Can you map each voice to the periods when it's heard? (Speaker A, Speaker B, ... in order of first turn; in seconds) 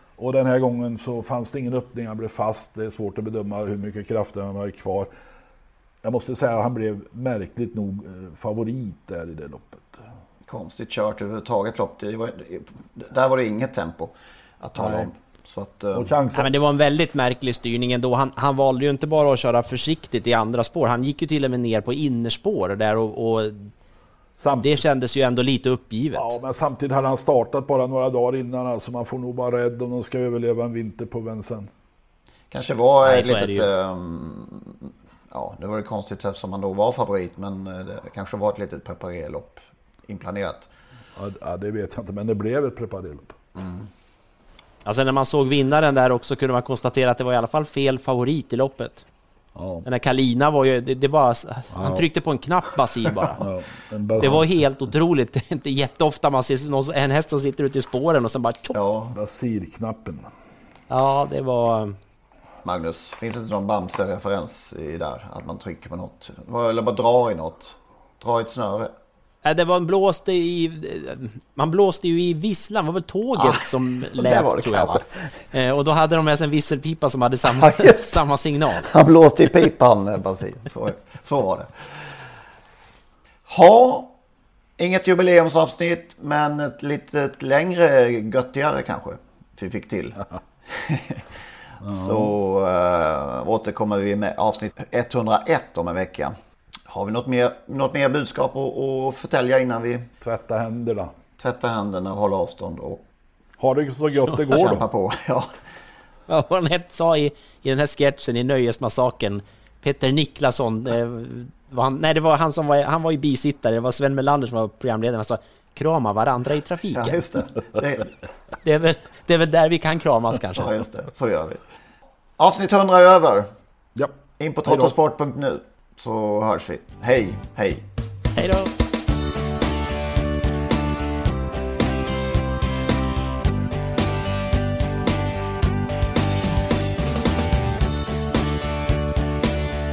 Speaker A: 0.2-5.1, 6.0-10.0, 14.8-15.1, 15.9-16.5, 24.4-24.8, 26.1-31.7, 41.1-43.4, 49.5-49.9, 51.7-52.1, 53.4-54.5, 59.1-60.2, 91.8-92.3, 100.2-101.1, 103.6-104.8, 124.0-124.9
Speaker B: 10.5-16.1, 32.5-40.7, 43.5-43.9, 58.7-59.1, 62.6-68.9, 73.4-75.1, 77.6-78.1, 78.9-81.7, 83.5-84.1, 84.8-91.3, 91.8-96.3, 96.9-100.1, 101.4-103.0, 104.5-105.5, 116.9-118.1, 120.5-121.6, 122.4-123.5, 124.4-127.8
Speaker C: 16.3-23.7, 24.6-26.3, 33.0-33.7, 44.8-49.0, 49.8-53.4, 54.2-58.8, 60.9-62.0, 69.4-78.9, 106.3-117.2, 118.6-120.7, 128.3-128.7